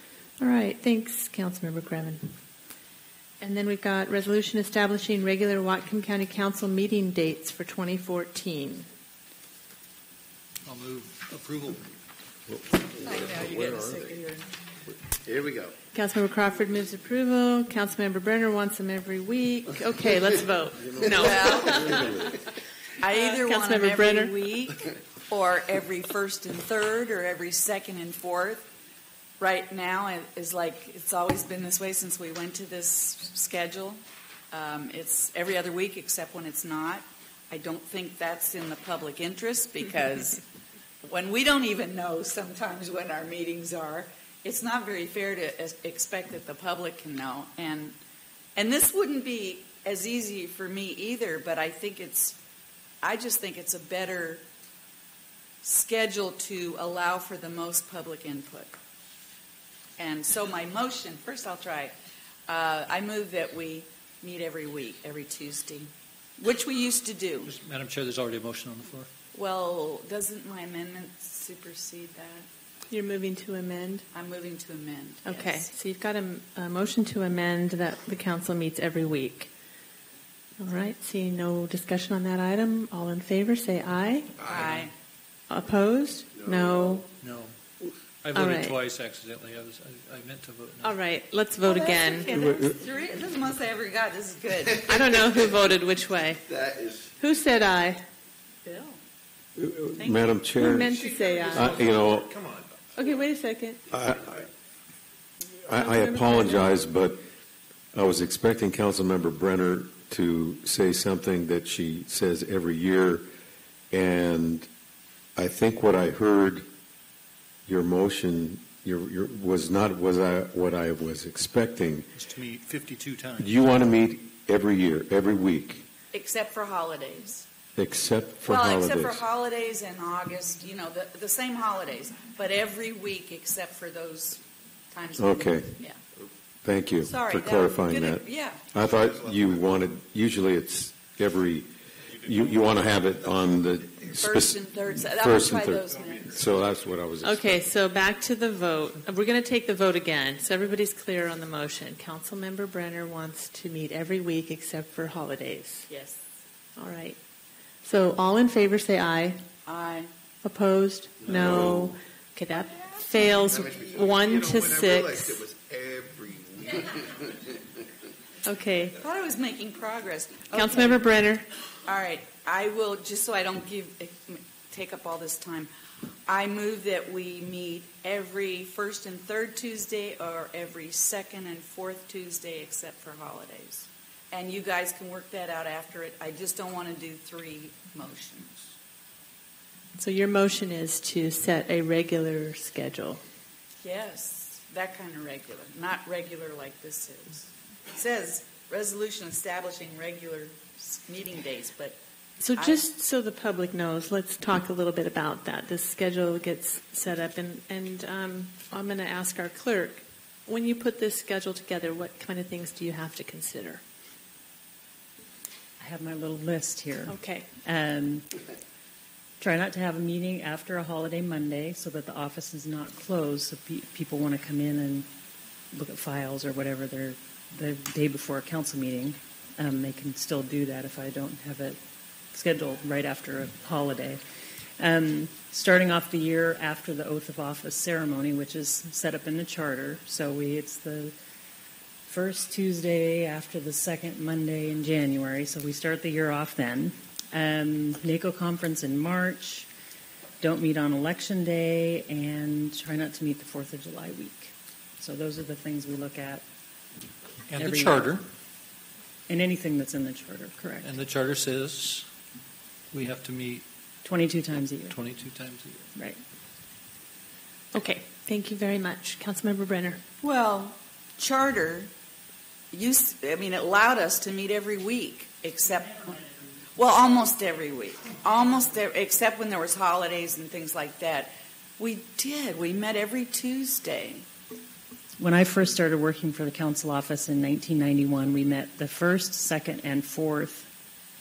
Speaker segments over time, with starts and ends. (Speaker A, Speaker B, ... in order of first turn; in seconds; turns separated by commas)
Speaker A: 0.4-2.4, Speaker A: 3.4-8.9, Speaker B: 10.7-11.9, Speaker C: 12.5-13.6, Speaker D: 13.0-14.5, Speaker E: 13.1-14.0, Speaker E: 15.1-15.7, Speaker A: 15.9-22.4, Speaker E: 21.0-22.3, Speaker D: 21.1-22.0, Speaker D: 23.0-28.7, Speaker A: 23.1-24.4, Speaker D: 29.4-34.0, Speaker D: 34.5-40.4, Speaker D: 41.0-48.0, Speaker D: 48.6-52.4, Speaker D: 53.0-54.5, Speaker D: 55.6-58.8, Speaker D: 60.0-62.0, Speaker D: 62.5-67.5, Speaker B: 67.5-69.1, Speaker D: 69.3-72.5, Speaker A: 72.9-74.0, Speaker D: 74.1-75.7, Speaker A: 75.2-79.5, Speaker A: 80.6-84.3, Speaker E: 84.4-84.7, Speaker D: 84.4-84.9, Speaker A: 85.5-87.1, Speaker E: 86.4-87.0, Speaker B: 87.2-87.5, Speaker B: 88.2-91.0, Speaker A: 88.3-88.8, Speaker A: 90.8-92.4, Speaker D: 91.6-94.8, Speaker C: 92.4-92.7, Speaker A: 94.8-96.4, Speaker E: 94.9-95.3, Speaker E: 96.5-97.1, Speaker A: 97.2-98.0, Speaker D: 98.7-99.0, Speaker C: 99.6-101.0, Speaker D: 100.0-100.3, Speaker A: 100.6-101.8, Speaker E: 100.8-102.8, Speaker C: 101.5-102.3, Speaker A: 103.0-103.8, Speaker C: 103.9-104.4, Speaker C: 105.7-107.2, Speaker A: 105.8-106.8, Speaker C: 107.9-113.3, Speaker C: 113.9-114.7, Speaker C: 115.4-116.7, Speaker C: 117.7-122.1, Speaker B: 122.2-123.5, Speaker C: 123.4-125.9, Speaker D: 126.1-127.5, Speaker C: 127.8-129.2, Speaker D: 128.5-136.0, Speaker C: 135.2-135.8, Speaker C: 136.6-147.6, Speaker D: 137.0-138.6, Speaker E: 138.9-139.8, Speaker D: 144.2-146.6, Speaker A: 147.2-155.9, Speaker D: 155.9-156.2, Speaker A: 156.8-157.2, Speaker A: 157.8-159.4, Speaker D: 159.7-160.1, Speaker A: 160.4-165.4, Speaker E: 161.3-161.7, Speaker C: 161.3-161.9, Speaker E: 163.4-167.8, Speaker A: 168.4-169.0, Speaker D: 169.0-171.0, Speaker A: 170.5-171.5, Speaker D: 171.9-175.7, Speaker D: 176.3-188.7, Speaker A: 190.0-193.2, Speaker D: 193.8-202.0, Speaker A: 202.4-213.8, Speaker D: 202.6-202.8, Speaker F: 215.8-218.2, Speaker A: 217.1-217.5, Speaker F: 219.4-225.1, Speaker F: 225.7-231.8, Speaker F: 232.3-234.2, Speaker F: 234.8-241.2, Speaker F: 242.1-249.7, Speaker F: 250.4-256.4, Speaker B: 257.5-258.2, Speaker F: 257.5-258.2, Speaker F: 259.3-260.9, Speaker B: 260.8-262.1, Speaker B: 262.9-263.6, Speaker F: 264.1-265.0, Speaker B: 264.9-265.9, Speaker F: 265.9-266.2, Speaker A: 267.7-270.0, Speaker D: 270.2-271.9, Speaker D: 272.7-276.2, Speaker D: 276.8-284.3, Speaker F: 285.2-290.7